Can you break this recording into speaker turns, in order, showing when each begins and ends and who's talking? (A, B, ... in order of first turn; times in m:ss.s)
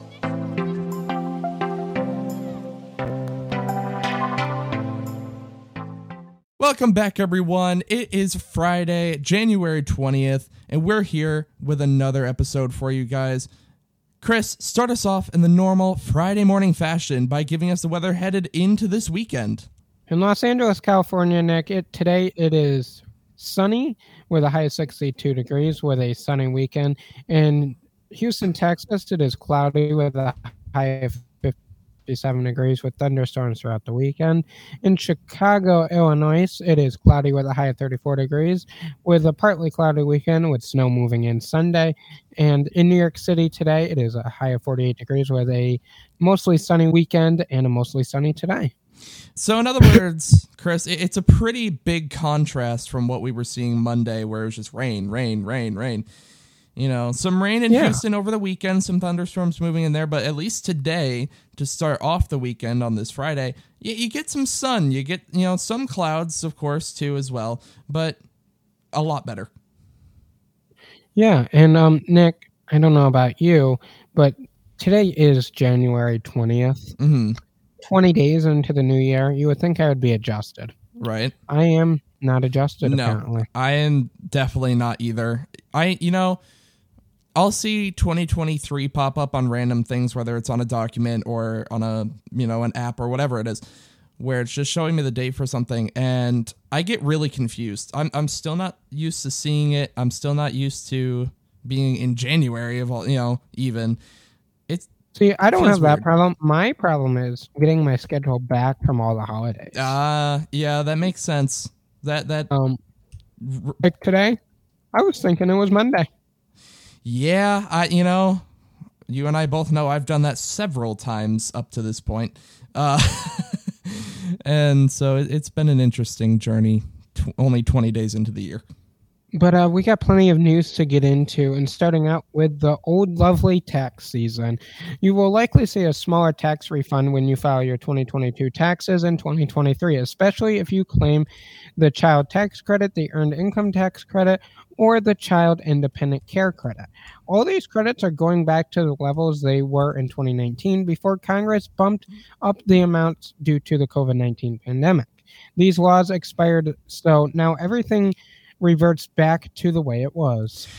0:06.6-0:13.5 A
0:14.2-0:19.7 A
0:20.1-0:31.5 B
0:32.1-0:48.7 B
0:49.4-0:56.0 A
0:56.8-1:08.2 A
0:57.7-0:58.0 B
1:08.9-1:09.5 A
1:11.2-1:16.9 B
1:17.0-1:17.4 A
1:17.8-1:20.7 B
1:21.0-1:21.3 A
1:21.5-1:23.4 B
1:22.8-1:26.4 A
1:27.4-1:33.6 A
1:34.2-1:44.0 A
1:45.1-1:50.0 B
1:45.5-1:46.0 A
1:49.7-1:52.5 A
1:52.5-1:52.8 B
1:53.4-1:53.8 A
1:53.8-1:54.4 B
1:54.9-1:56.1 B
1:57.0-1:58.4 A
1:59.1-2:08.6 A
2:09.3-2:40.7 B